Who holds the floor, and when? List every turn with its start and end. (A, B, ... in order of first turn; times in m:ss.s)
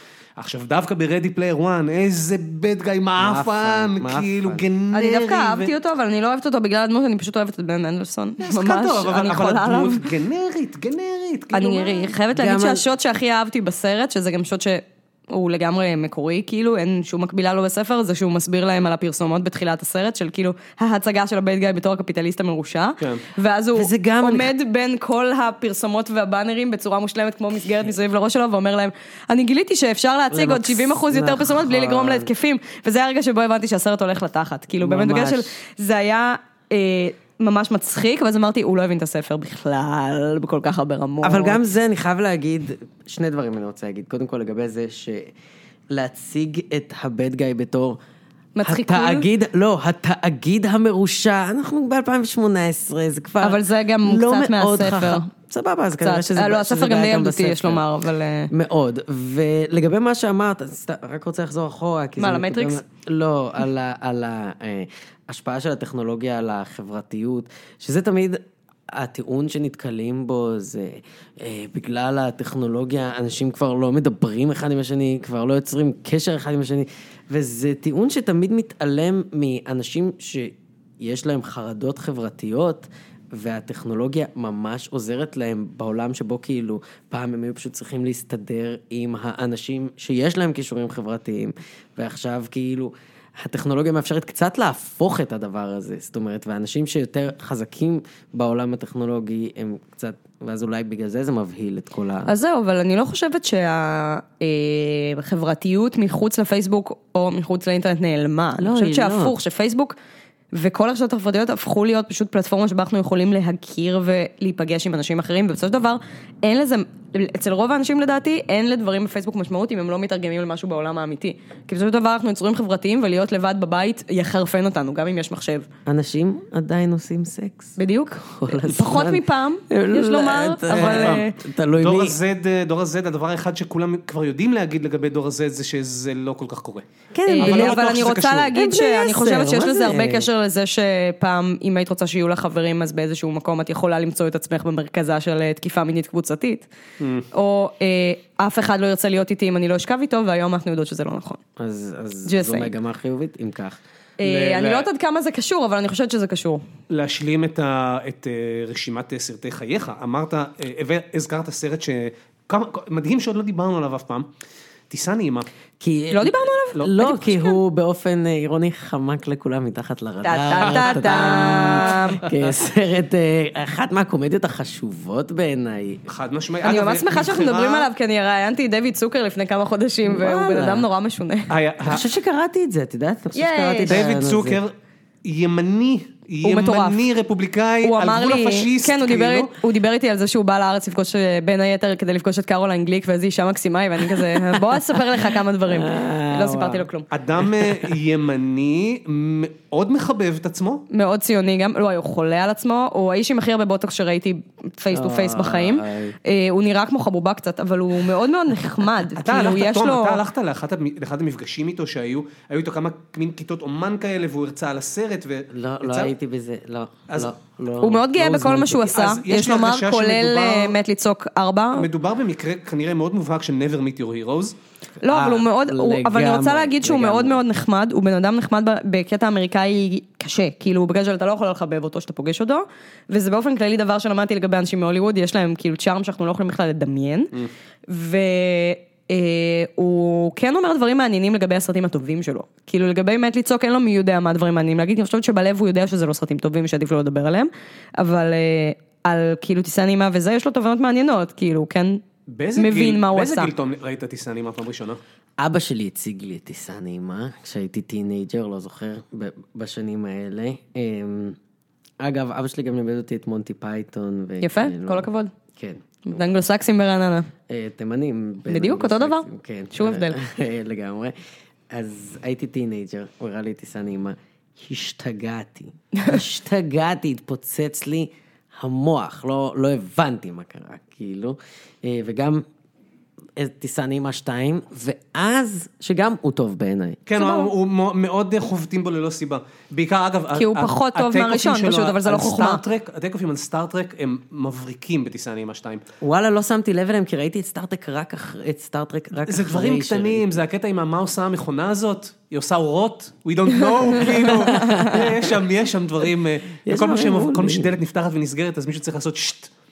0:00.4-0:05.7 A
0:03.2-0:04.6 B
0:04.9-0:10.0 C
0:08.4-0:12.2 A
0:11.5-0:41.6 C
0:12.3-0:12.9 B
0:23.7-0:24.5 B
0:30.3-0:32.3 B
0:34.8-0:35.5 B
0:41.2-0:45.3 B
0:45.9-0:48.0 B
0:48.6-0:49.3 C
0:48.6-0:57.8 B
0:53.4-0:55.3 C
0:56.0-0:58.5 C
0:58.5-1:42.3 B
1:02.2-1:02.8 C
1:42.3-1:50.0 C
1:48.6-1:49.3 B
1:50.5-2:05.6 C
2:05.8-2:12.2 B
2:07.8-2:11.4 C
2:10.7-2:16.8 A
2:17.1-2:17.8 B
2:17.2-2:26.7 C
2:17.4-2:18.5 A
2:18.5-2:20.3 B
2:27.0-2:27.3 A
2:27.3-2:31.4 C
2:31.6-2:33.8 B
2:32.2-2:32.7 C
2:34.2-2:36.6 C
2:34.2-2:34.9 A
2:36.9-2:44.3 A
2:44.9-2:45.5 A
2:45.8-2:56.0 B
2:46.1-2:47.6 C
2:50.2-2:52.3 C
2:50.4-2:52.0 A
2:56.1-2:57.9 A
2:56.6-3:01.5 C
3:00.0-3:00.9 B
3:01.5-3:02.0 A
3:01.8-3:04.6 B
3:03.3-3:04.0 C
3:03.9-3:04.7 A
3:05.2-3:09.5 A
3:06.4-3:07.0 C
3:07.8-3:17.1 C
3:15.7-3:16.8 B
3:17.1-3:20.8 A
3:20.9-3:30.2 C
3:24.9-3:26.2 B
3:29.2-3:36.1 A
3:35.5-3:38.9 B
3:37.8-3:41.9 C
3:38.9-3:40.8 A
3:41.7-3:44.5 A
3:45.0-3:57.3 C
3:45.1-3:47.4 B
3:57.9-4:12.0 C
4:12.3-4:15.0 A
4:12.6-4:13.5 C
4:15.4-4:21.4 B
4:22.0-4:26.2 B
4:24.4-4:25.3 C
4:26.0-4:27.3 C
4:27.5-4:31.1 B
4:28.5-4:30.2 C
4:31.7-4:42.4 B
4:43.4-4:47.0 B
4:47.0-4:55.8 A
4:47.2-4:47.5 C
4:50.3-4:52.6 C
4:56.0-5:00.4 B
4:59.2-5:09.5 A
5:04.3-5:05.0 B
5:04.6-5:05.0 C
5:06.6-5:07.8 B